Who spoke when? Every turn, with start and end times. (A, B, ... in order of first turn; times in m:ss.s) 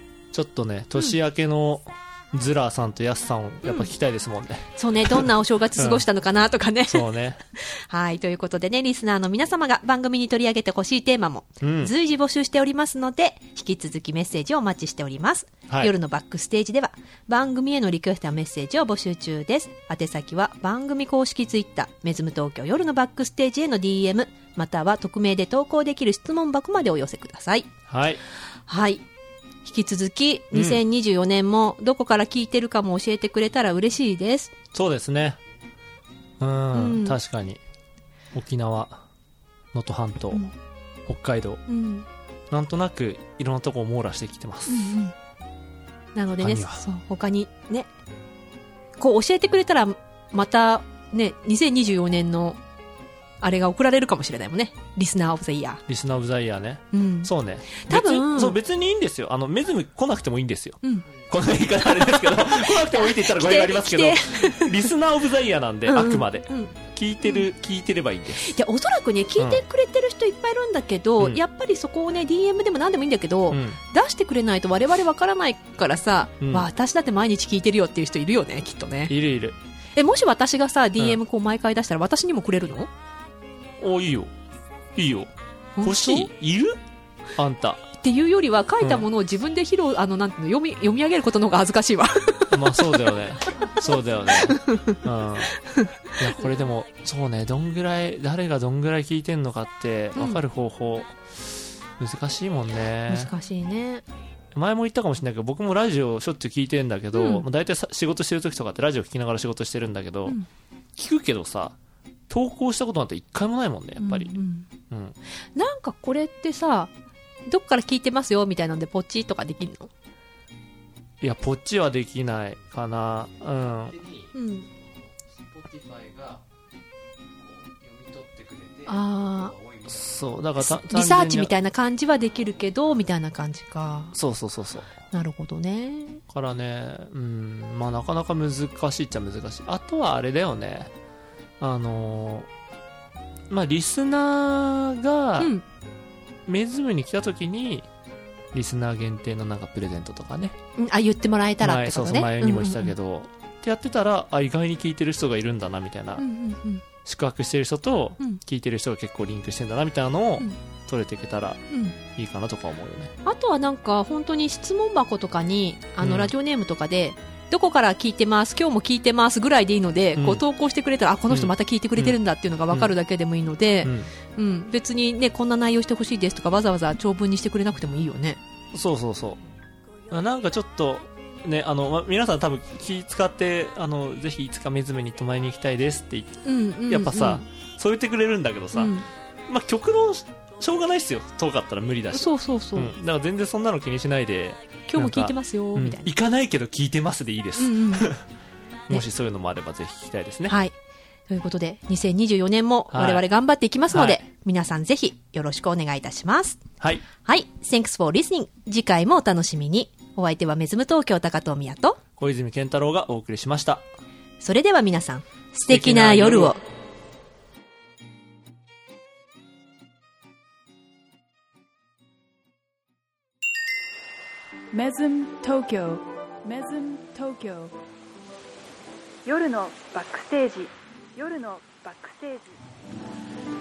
0:00.3-0:06.1 A
0:03.6-0:03.9 B
0:04.8-0:27.7 B
0:06.9-0:07.4 A
0:11.6-0:11.9 A
0:27.9-0:28.2 A
0:28.7-0:29.0 B
0:29.6-0:34.5 B
0:30.5-0:30.8 A
0:34.7-0:35.4 A
0:36.4-0:37.6 A
0:36.7-0:37.2 B
0:38.3-0:39.0 A
0:39.7-0:40.5 A
0:41.1-0:41.6 A
0:41.7-0:42.1 B
0:42.5-0:45.0 A
0:44.7-0:45.1 B
0:46.2-0:47.9 B
0:46.4-0:46.8 A
0:49.0-0:52.6 B
0:53.4-0:55.8 B
0:55.9-1:08.6 A
0:56.9-0:58.6 B
1:02.2-1:04.9 B
1:05.9-1:07.5 B
1:08.4-1:19.2 B
1:09.4-1:09.6 A
1:13.5-1:13.8 A
1:16.4-1:16.7 A
1:19.1-1:19.6 A
1:20.0-1:22.9 B
1:23.8-1:24.3 A
1:25.0-1:26.8 A
1:25.8-1:26.3 B
1:27.4-1:27.9 A
1:28.0-1:32.9 B
1:28.8-1:29.1 A
1:32.5-1:35.5 A
1:33.8-1:35.0 B
1:35.6-1:36.0 B
1:36.2-1:43.3 A
1:40.2-1:40.4 B
1:43.1-1:44.0 B
1:44.5-1:50.4 A
1:47.1-1:47.5 B
1:51.0-1:51.8 A
1:52.3-1:54.4 A
1:54.0-1:54.7 B
1:54.9-1:55.2 A
1:55.6-1:56.9 B
1:57.5-1:59.9 B
2:01.2-2:04.0 A
2:03.4-2:06.4 C
2:04.3-2:04.7 B
2:07.3-2:10.4 C
2:08.9-2:09.5 B
2:09.9-2:11.5 A
2:10.6-2:14.2 B
2:14.1-2:14.9 A
2:15.1-2:16.2 B
2:16.3-2:20.9 A
2:21.6-2:22.5 A
2:23.5-2:25.5 A
2:25.4-2:25.6 B
2:26.5-2:27.9 A
2:28.5-2:30.6 A
2:30.8-2:32.9 B
2:31.6-2:36.2 A
2:36.2-2:36.8 B
2:37.0-2:43.1 A
2:41.7-2:42.0 B
2:43.2-2:58.4 B
2:46.0-2:46.3 A
2:50.2-2:50.4 A
2:51.3-2:52.9 A
2:53.8-2:54.1 A
2:58.7-2:59.4 A
3:00.1-3:09.0 A
3:06.4-3:07.5 B
3:08.7-3:09.1 B
3:09.5-3:18.2 A
3:12.1-3:13.0 B
3:14.9-3:16.1 B
3:17.6-3:18.1 B
3:18.9-3:20.5 A
3:20.5-3:20.7 B
3:21.3-3:26.6 B
3:22.9-3:23.2 A
3:23.9-3:24.2 A
3:27.2-3:32.0 B
3:32.2-3:33.9 A
3:34.4-3:36.6 B
3:35.7-3:36.6 A
3:44.7-3:47.8 D
3:49.2-3:52.6 D